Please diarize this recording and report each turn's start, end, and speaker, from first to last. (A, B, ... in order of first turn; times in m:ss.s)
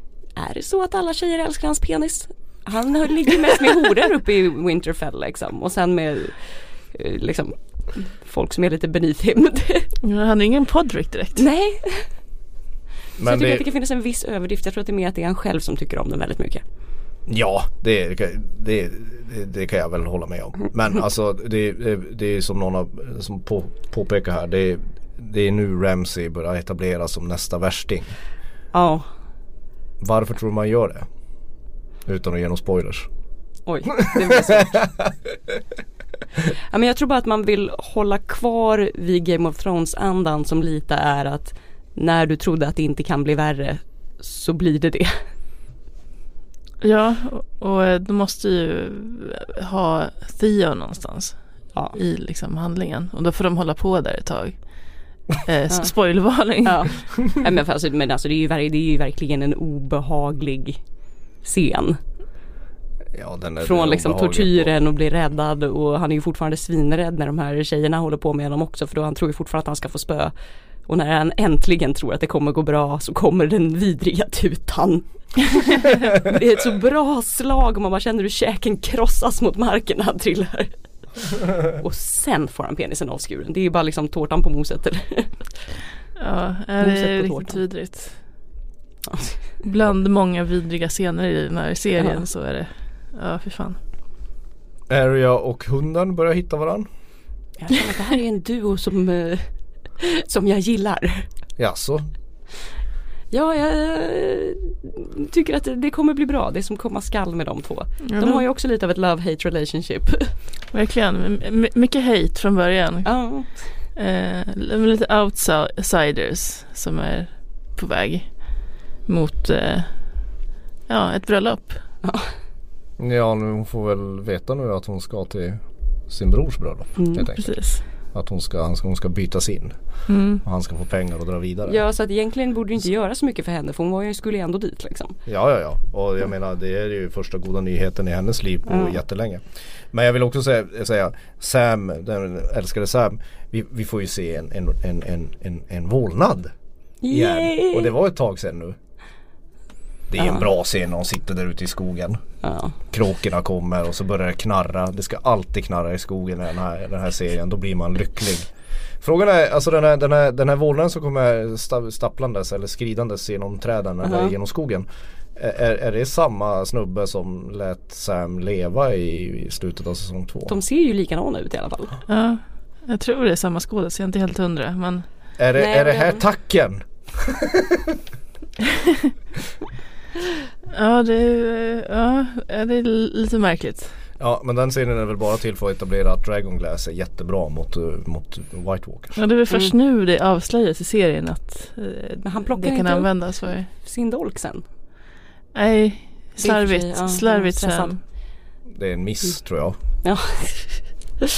0:00.3-0:09.9 A
0:10.0-0:11.4 B
0:11.3-0:12.1 A
0:13.2-0:13.6 C
0:13.2-0:16.6 A
0:17.3-0:28.2 C
0:28.7-0:29.1 A
0:30.0-0:31.1 C
0:32.0-0:33.1 C
0:33.6-0:34.8 A
0:34.3-0:35.5 C
0:36.7-0:45.2 A
0:46.8-0:51.4 B
0:51.9-0:54.8 B
0:55.4-0:57.1 B
0:56.6-1:00.8 A
1:01.4-1:02.0 A
1:03.1-1:04.9 C
1:03.6-1:10.3 A
1:10.8-1:20.7 A
1:21.6-1:25.5 A
1:26.2-1:28.2 B
1:26.8-1:27.6 A
1:29.1-1:29.4 A
1:29.6-1:33.8 B
1:32.0-1:32.2 A
1:34.9-1:36.9 C
1:37.6-1:41.3 A
1:41.6-1:42.1 C
1:43.3-1:50.3 A
1:48.0-1:48.4 B
1:50.7-2:00.4 B
1:53.0-1:53.8 A
2:00.9-2:01.8 B
2:02.0-2:02.3 A
2:03.0-2:11.8 C
2:07.0-2:07.3 A
2:07.4-2:07.8 B
2:10.1-2:10.4 B
2:11.7-2:15.2 A
2:15.2-2:26.5 C
2:18.7-2:19.0 A
2:27.0-2:27.9 A
2:27.1-2:28.8 C
2:30.1-2:32.2 C
2:30.2-2:30.4 A
2:32.4-2:32.7 A
2:32.9-2:50.6 C
2:44.0-2:44.3 A
2:50.5-2:52.0 A
2:52.1-2:55.1 B
2:55.4-2:57.8 C
2:55.6-2:56.2 A
3:00.7-3:03.9 B
3:04.2-3:09.2 C
3:09.1-3:13.7 B
3:09.5-3:09.7 A
3:12.2-3:14.6 A
3:15.5-3:18.0 B
3:16.4-3:17.9 A
3:18.7-3:19.8 C
3:20.0-3:20.8 A